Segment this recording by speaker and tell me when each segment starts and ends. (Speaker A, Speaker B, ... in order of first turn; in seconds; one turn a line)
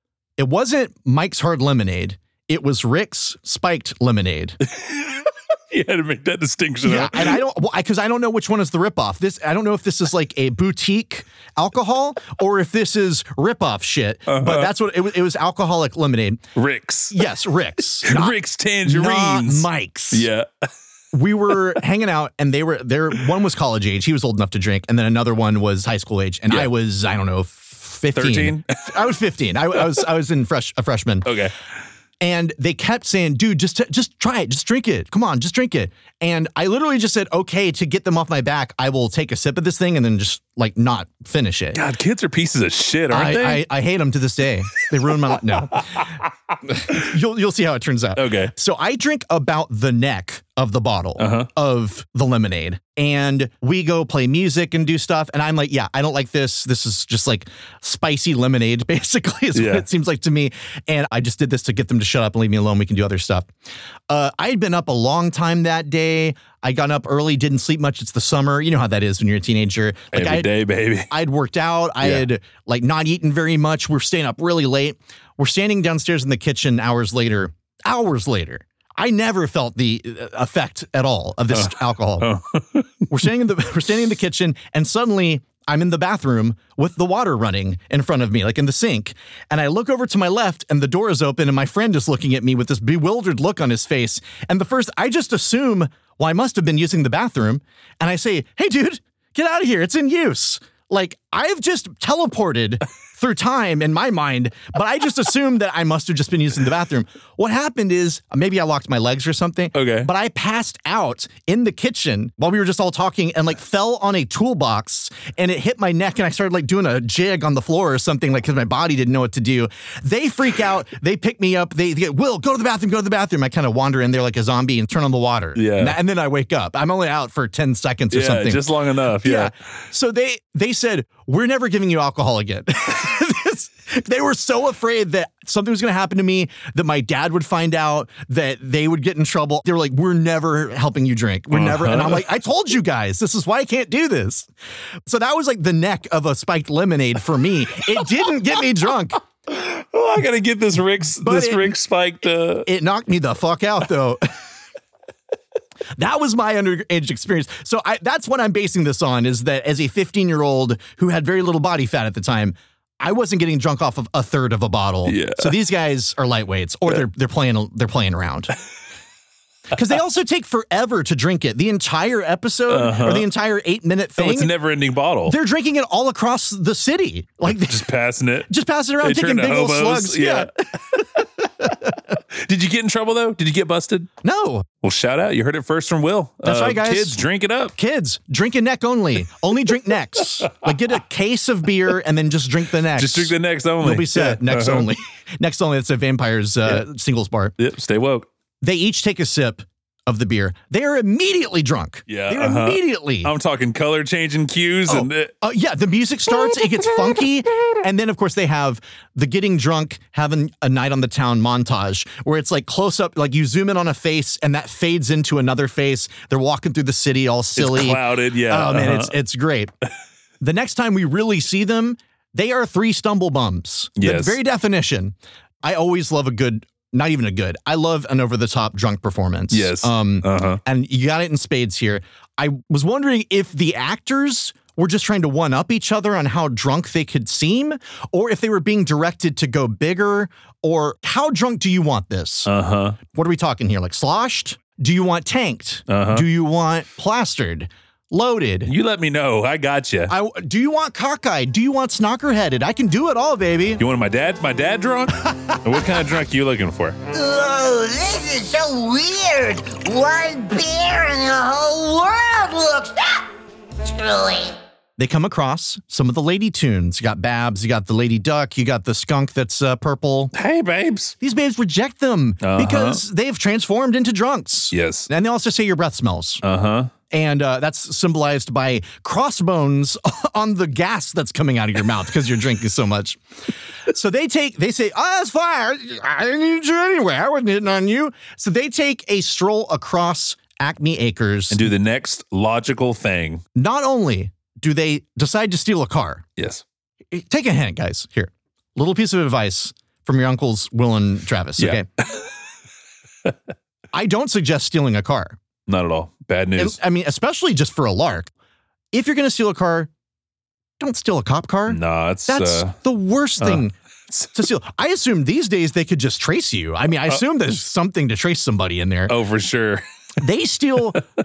Speaker A: 0.4-4.6
Speaker B: 4.8-7.4
Speaker A: 6.8-16.4
Speaker B: 14.3-14.7
Speaker B: 16.6-17.2
Speaker A: 17.1-20.3
Speaker B: 18.0-20.5
Speaker A: 21.1-31.3
Speaker B: 28.1-29.0
Speaker B: 31.2-31.5
Speaker A: 32.2-41.8
Speaker B: 41.7-43.6
Speaker A: 43.1-46.1
Speaker A: 46.6-63.5
Speaker B: 48.1-48.5
Speaker B: 51.2-51.5
Speaker B: 59.5-59.8
Speaker A: 64.1-70.5
Speaker B: 70.1-71.1
Speaker A: 71.1-82.3
Speaker B: 81.5-82.9
Speaker A: 83.1-144.5
Speaker B: 109.7-110.1
Speaker B: 125.5-126.0
Speaker B: 128.1-129.5
Speaker B: 141.5-142.2
Speaker A: 145.1-149.2
Speaker B: 149.5-152.7
Speaker A: 151.2-151.8
Speaker A: 152.6-154.2
Speaker A: 156.0-168.5
Speaker B: 165.1-165.5
Speaker A: 169.7-174.5
Speaker B: 172.7-173.3
Speaker B: 174.2-175.4
Speaker A: 175.2-177.9
Speaker B: 177.5-178.5
Speaker A: 178.5-181.0
Speaker B: 179.0-181.0
Speaker A: 181.6-181.9
Speaker B: 182.4-184.1
Speaker A: 184.2-184.7
Speaker B: 184.8-187.7
Speaker A: 186.4-187.2
Speaker A: 187.7-197.5
Speaker B: 192.9-194.9
Speaker B: 197.6-198.3
Speaker A: 198.6-203.3
Speaker B: 202.1-205.3
Speaker A: 204.9-219.7
Speaker B: 217.6-219.1
Speaker A: 220.4-242.5
Speaker B: 224.0-224.4
Speaker B: 229.5-230.6
Speaker B: 242.5-243.0
Speaker A: 243.1-248.7
Speaker B: 245.9-246.2
Speaker B: 248.7-250.1
Speaker A: 250.1-253.8
Speaker B: 253.8-257.0
Speaker C: 257.1-263.2
Speaker C: 263.8-264.5
Speaker A: 265.0-270.3
Speaker B: 270.3-271.1
Speaker A: 271.2-276.4
Speaker B: 272.4-273.0
Speaker B: 274.7-275.1
Speaker B: 276.4-276.9
Speaker A: 277.1-283.2
Speaker A: 283.9-291.7
Speaker B: 291.5-293.4
Speaker A: 293.5-296.2
Speaker B: 296.4-296.6
Speaker A: 297.1-301.9
Speaker B: 301.6-302.2
Speaker A: 303.9-305.4
Speaker B: 305.7-306.8
Speaker A: 306.6-308.3
Speaker A: 308.9-309.9
Speaker A: 310.8-313.7
Speaker B: 311.7-312.8
Speaker B: 313.4-314.3
Speaker A: 314.3-319.1
Speaker B: 319.1-319.8
Speaker A: 320.2-321.0